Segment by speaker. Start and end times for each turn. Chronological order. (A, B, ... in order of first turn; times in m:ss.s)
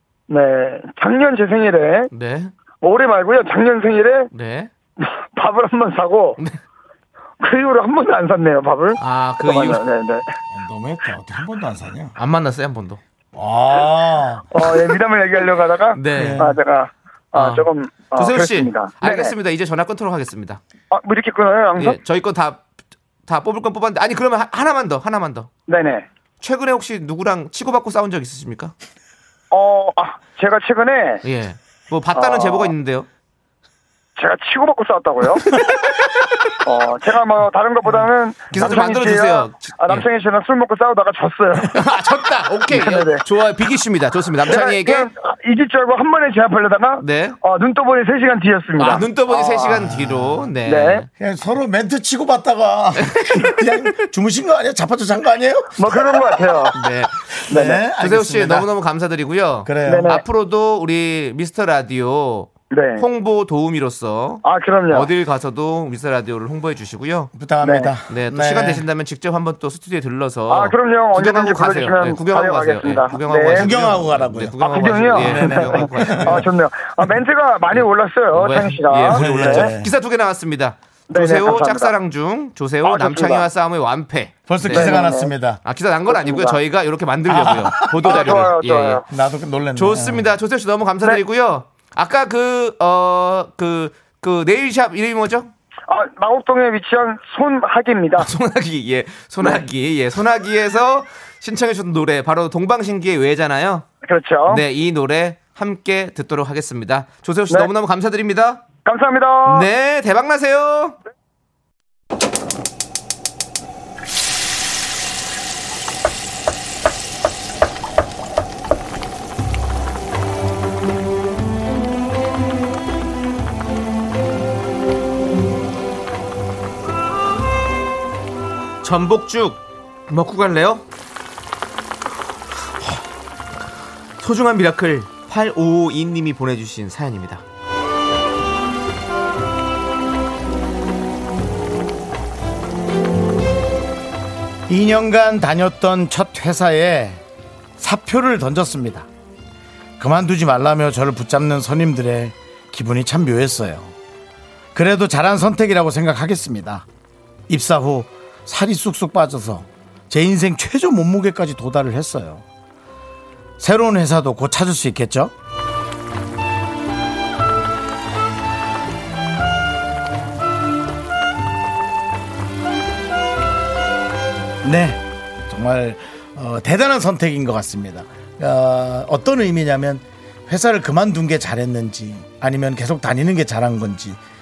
0:00.3-0:02.1 A
0:02.1-0:02.5 B
0:02.8-0:04.3 A
0:04.3-0:04.7 B
0:05.0-0:06.4 A
0:07.4-0:10.2 A
0:09.0-0:09.8 B
0:10.5-0:12.1 C
0:12.2-0:13.0 B
0:13.3-0:14.7 C
0:14.5-0:19.3 A
0:16.0-0:16.5 B
0:16.1-0:16.5 C
0:17.3-0:20.6 B
0:20.9-0:22.0 A
0:21.8-0:22.6 B
0:23.3-0:25.5 B
0:25.7-0:26.1 A
0:26.4-0:28.7 B
0:29.5-0:31.2 A
0:31.2-0:33.1 B
0:32.2-0:32.7 A
0:34.2-0:35.5 A
0:35.5-0:36.2 B
0:36.6-0:41.8 A
0:38.5-0:40.1 B
0:41.7-0:45.1 B
0:42.7-0:43.2 A
0:44.5-0:49.8 A
0:47.0-0:47.4 B
0:48.8-0:51.1 B
0:49.7-0:50.5 C
0:50.6-0:51.0 A
0:51.2-0:56.7 C
0:53.0-0:53.9 B
0:55.8-0:56.7 A
0:56.7-0:57.2 B
0:57.3-0:58.7 C
0:57.5-0:57.8 A
0:58.0-1:07.3 B
0:59.6-1:00.2 C
0:59.9-1:00.2 A
1:02.7-1:03.0 A
1:04.4-1:05.1 A
1:07.3-1:08.8 C
1:07.6-1:07.9 A
1:08.1-1:16.5 B
1:10.5-1:13.7 A
1:13.4-1:14.6 C
1:14.6-1:19.7 A
1:15.1-1:16.4 C
1:17.8-1:25.0 B
1:19.1-1:19.9 C
1:21.1-1:21.9 A
1:22.8-1:23.4 A
1:24.5-1:25.6 C
1:24.7-1:25.3 A
1:25.6-1:29.0 B
1:26.1-1:26.6 A
1:27.3-1:28.4 C
1:28.0-1:29.0 A
1:29.1-1:30.3 C
1:29.8-1:35.5 B
1:35.9-1:38.3 A
1:38.2-1:43.9 B
1:44.1-1:44.6 A
1:44.5-1:48.6 B
1:48.8-1:49.7 A
1:49.5-1:51.0 B
2:08.8-2:10.8 B
2:14.2-2:17.4 B
2:24.7-2:27.2 C
2:27.8-2:29.1 C
2:30.0-2:34.0 C
2:34.7-2:36.9 C
2:37.5-2:42.4 C
2:43.6-2:45.3 C
2:54.6-3:04.2 C